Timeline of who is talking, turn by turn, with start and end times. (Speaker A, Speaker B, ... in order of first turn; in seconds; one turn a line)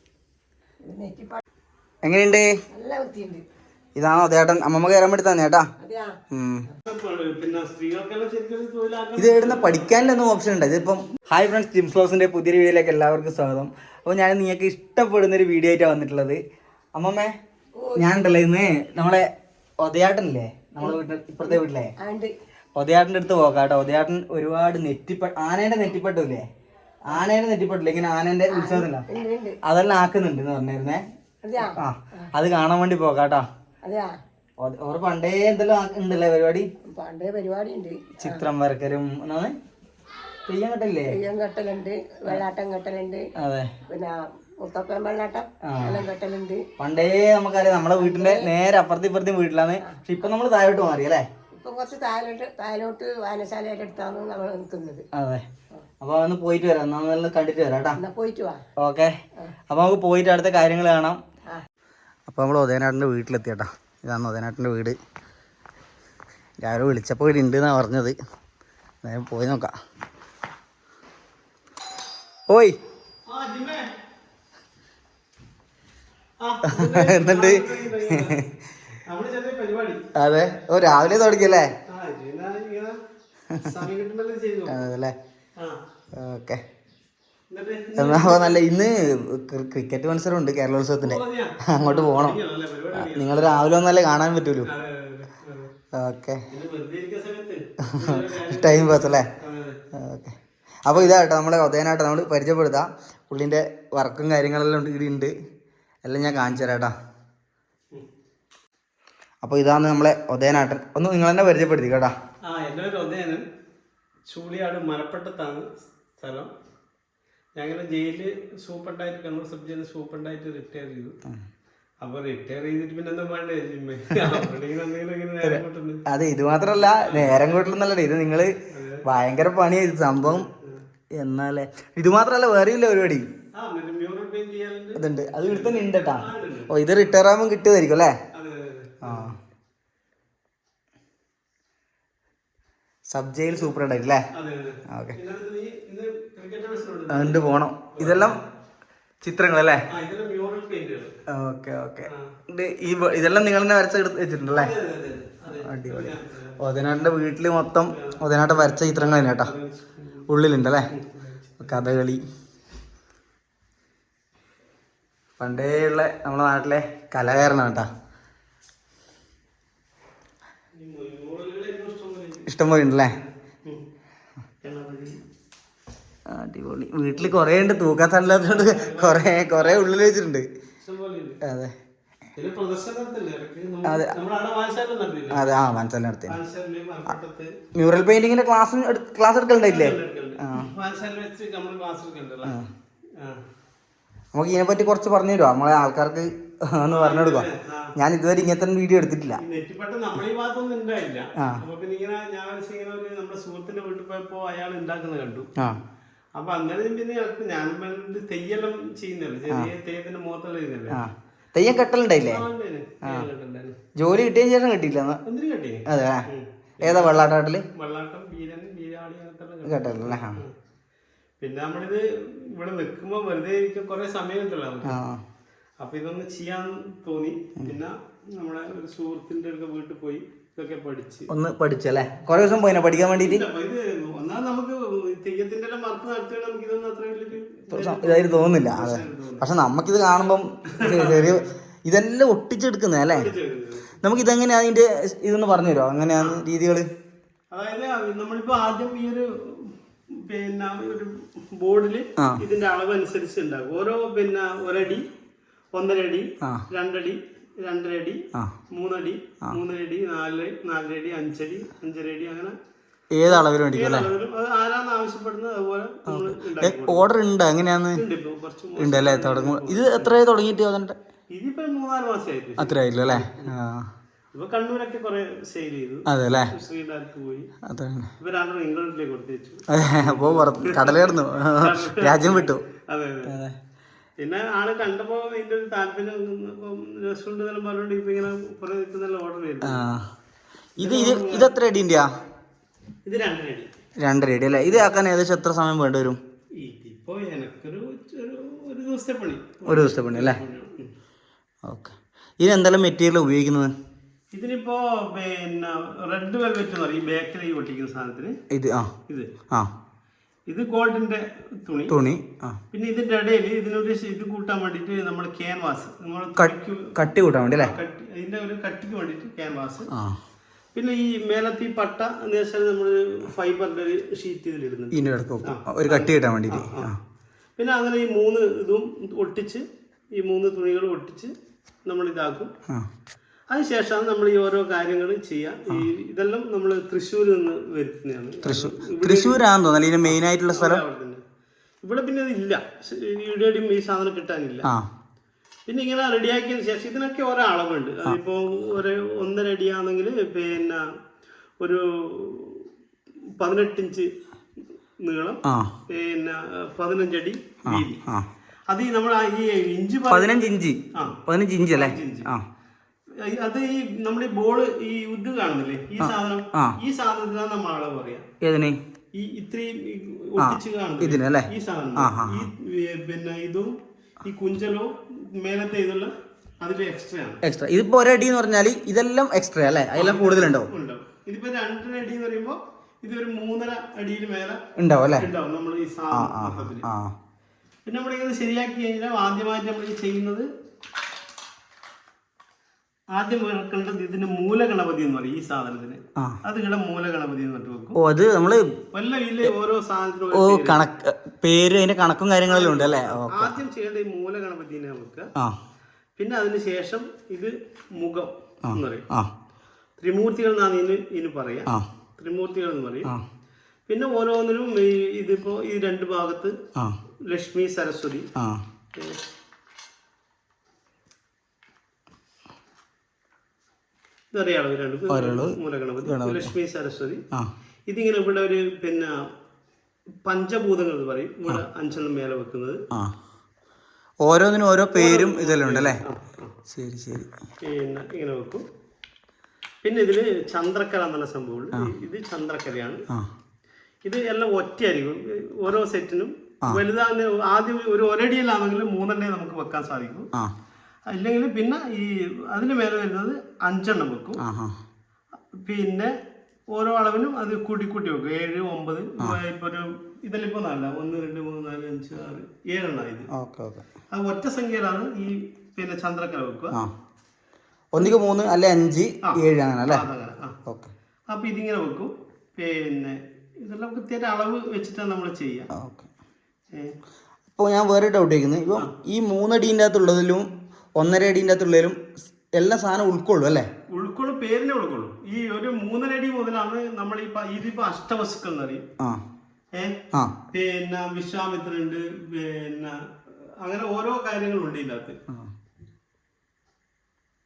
Speaker A: 0.8-1.4
Speaker B: 2.0-2.5
Speaker A: 2.7-3.4
Speaker B: 4.0-5.7
Speaker A: 5.8-6.2
Speaker B: 6.3-6.7
Speaker C: 6.8-9.9
Speaker B: 9.2-16.4
Speaker B: 16.9-17.3
Speaker A: 17.8-18.2
Speaker B: 18.0-19.3
Speaker B: 19.8-21.9
Speaker A: 20.8-22.3
Speaker B: 22.8-26.4
Speaker B: 27.1-29.1
Speaker A: 28.5-29.6
Speaker B: 29.6-31.0
Speaker A: 31.4-32.3
Speaker B: 31.7-33.5
Speaker A: 33.8-34.2
Speaker B: 34.6-36.7
Speaker A: 36.8-38.5
Speaker B: 38.2-39.5
Speaker B: 40.5-41.2
Speaker A: 41.1-43.2
Speaker B: 43.4-43.7
Speaker A: 43.9-46.6
Speaker B: 45.6-46.0
Speaker B: 46.8-51.3
Speaker A: 48.0-48.5
Speaker A: 51.6-55.0
Speaker B: 55.1-55.5
Speaker B: 56.0-58.0
Speaker A: 58.0-58.6
Speaker B: 58.8-59.1
Speaker B: 59.7-61.2
Speaker B: 62.3-65.0
Speaker B: 66.6-68.1
Speaker B: 69.0-69.7
Speaker B: 72.5-72.8
Speaker C: 73.3-73.9
Speaker C: 76.4-78.5
Speaker B: 76.7-78.3
Speaker C: 79.1-80.0
Speaker B: 80.1-81.7
Speaker C: 81.9-83.0
Speaker C: 83.6-84.8
Speaker B: 84.7-85.1
Speaker B: 86.1-86.6
Speaker C: 87.5-88.7
Speaker B: 88.0-92.4
Speaker C: 91.0-93.6
Speaker B: 92.9-94.7
Speaker C: 94.6-95.7
Speaker B: 95.9-96.4
Speaker C: 96.5-99.8
Speaker B: 97.9-99.3
Speaker B: 99.9-105.3
Speaker B: 106.0-106.9
Speaker B: 109.4-112.1
Speaker C: 112.4-113.4
Speaker C: 114.3-116.5
Speaker C: 117.5-121.1
Speaker C: 122.0-126.0
Speaker B: 125.4-130.5
Speaker C: 126.5-127.6
Speaker C: 128.7-129.0
Speaker C: 130.2-130.8
Speaker B: 131.2-133.3
Speaker C: 133.5-136.7
Speaker B: 135.0-138.2
Speaker C: 138.3-139.3
Speaker B: 139.0-139.3
Speaker B: 143.1-144.2
Speaker C: 144.3-148.4
Speaker B: 144.9-145.2
Speaker B: 147.1-148.4
Speaker B: 149.2-149.8
Speaker C: 149.9-151.2
Speaker B: 151.3-154.7
Speaker C: 154.5-156.6
Speaker B: 155.5-159.5
Speaker C: 157.9-160.2
Speaker B: 160.3-160.9
Speaker C: 160.9-161.8
Speaker B: 161.6-162.2
Speaker B: 165.4-167.9
Speaker C: 170.8-172.6
Speaker B: 172.5-173.2
Speaker C: 173.1-173.9
Speaker C: 174.6-175.2
Speaker B: 176.3-180.5
Speaker C: 178.2-180.2
Speaker C: 180.8-181.4
Speaker B: 181.4-181.7
Speaker C: 182.4-185.4
Speaker B: 183.8-184.2
Speaker B: 185.3-186.4
Speaker C: 186.3-187.6
Speaker B: 187.8-190.7
Speaker C: 189.6-192.6
Speaker C: 193.2-193.4
Speaker B: 194.3-199.4
Speaker C: 196.8-197.9
Speaker C: 199.4-205.5
Speaker C: 206.3-211.0
Speaker B: 210.9-212.4
Speaker C: 212.2-213.8
Speaker B: 214.0-215.2
Speaker C: 215.2-220.5
Speaker B: 215.9-216.3
Speaker B: 216.8-217.7
Speaker B: 219.7-220.4
Speaker C: 221.4-225.0
Speaker B: 224.8-225.2
Speaker C: 225.8-231.3
Speaker B: 231.3-233.4
Speaker C: 232.9-239.4
Speaker B: 237.7-243.3
Speaker C: 240.8-241.4
Speaker C: 243.1-244.0
Speaker B: 244.0-246.9
Speaker C: 247.5-255.1
Speaker C: 255.7-262.5
Speaker B: 263.1-264.1
Speaker C: 263.2-267.0
Speaker B: 266.1-268.0
Speaker C: 267.9-270.2
Speaker B: 268.8-270.9
Speaker C: 271.3-273.5
Speaker B: 272.6-273.9
Speaker C: 274.3-277.5
Speaker B: 276.1-276.5
Speaker B: 277.6-278.1
Speaker C: 278.2-283.4
Speaker B: 279.7-282.6
Speaker B: 283.2-283.6
Speaker C: 284.2-289.8
Speaker B: 289.6-290.0
Speaker C: 290.8-291.5
Speaker B: 290.8-292.1
Speaker C: 293.0-293.8
Speaker B: 294.0-296.2
Speaker C: 296.6-300.9
Speaker B: 299.6-300.4
Speaker B: 301.7-303.7
Speaker C: 304.3-308.3
Speaker B: 308.5-308.9
Speaker C: 310.5-311.9
Speaker B: 311.9-312.6
Speaker C: 312.7-316.9
Speaker B: 316.4-317.8
Speaker C: 317.5-319.9
Speaker B: 319.9-320.2
Speaker C: 320.8-326.9
Speaker B: 324.9-327.0
Speaker C: 327.6-331.3
Speaker C: 331.9-332.5
Speaker C: 333.5-339.4
Speaker B: 338.4-340.8
Speaker C: 340.0-341.2
Speaker C: 341.8-344.7
Speaker C: 345.7-350.8
Speaker C: 351.6-352.7
Speaker C: 353.4-354.1
Speaker C: 355.0-358.0
Speaker B: 355.4-355.7
Speaker B: 357.6-358.3
Speaker C: 358.7-361.2
Speaker B: 360.1-362.4
Speaker C: 361.7-362.3
Speaker C: 363.2-368.2
Speaker B: 366.0-366.8
Speaker B: 368.4-368.8
Speaker C: 369.1-377.4
Speaker B: 370.4-372.5
Speaker B: 377.4-380.7
Speaker C: 379.9-384.6
Speaker B: 384.8-385.3
Speaker C: 385.1-386.9
Speaker B: 386.1-387.1
Speaker C: 387.9-390.5
Speaker C: 393.1-398.0
Speaker B: 397.9-398.7
Speaker C: 398.9-400.8
Speaker B: 400.3-403.5
Speaker C: 402.5-405.3
Speaker C: 406.2-409.0
Speaker B: 408.7-409.3
Speaker C: 410.0-413.1
Speaker C: 413.9-416.5
Speaker C: 417.2-418.3
Speaker B: 418.4-418.6
Speaker C: 424.3-427.2
Speaker B: 425.1-426.5
Speaker C: 427.9-429.1
Speaker C: 430.2-432.8
Speaker B: 434.2-436.0
Speaker C: 434.9-436.6
Speaker B: 436.7-437.3
Speaker C: 437.6-438.6
Speaker C: 439.8-443.0
Speaker C: 444.0-450.3
Speaker C: 451.1-454.4
Speaker B: 454.4-454.8
Speaker C: 455.5-456.1
Speaker C: 456.7-463.3
Speaker B: 463.3-463.8
Speaker C: 464.1-466.8
Speaker B: 467.9-470.1
Speaker C: 469.2-470.5
Speaker B: 470.6-470.9
Speaker C: 471.3-475.7
Speaker B: 475.8-476.1
Speaker B: 477.6-483.7
Speaker C: 483.9-488.8
Speaker C: 489.8-490.0
Speaker C: 490.5-495.1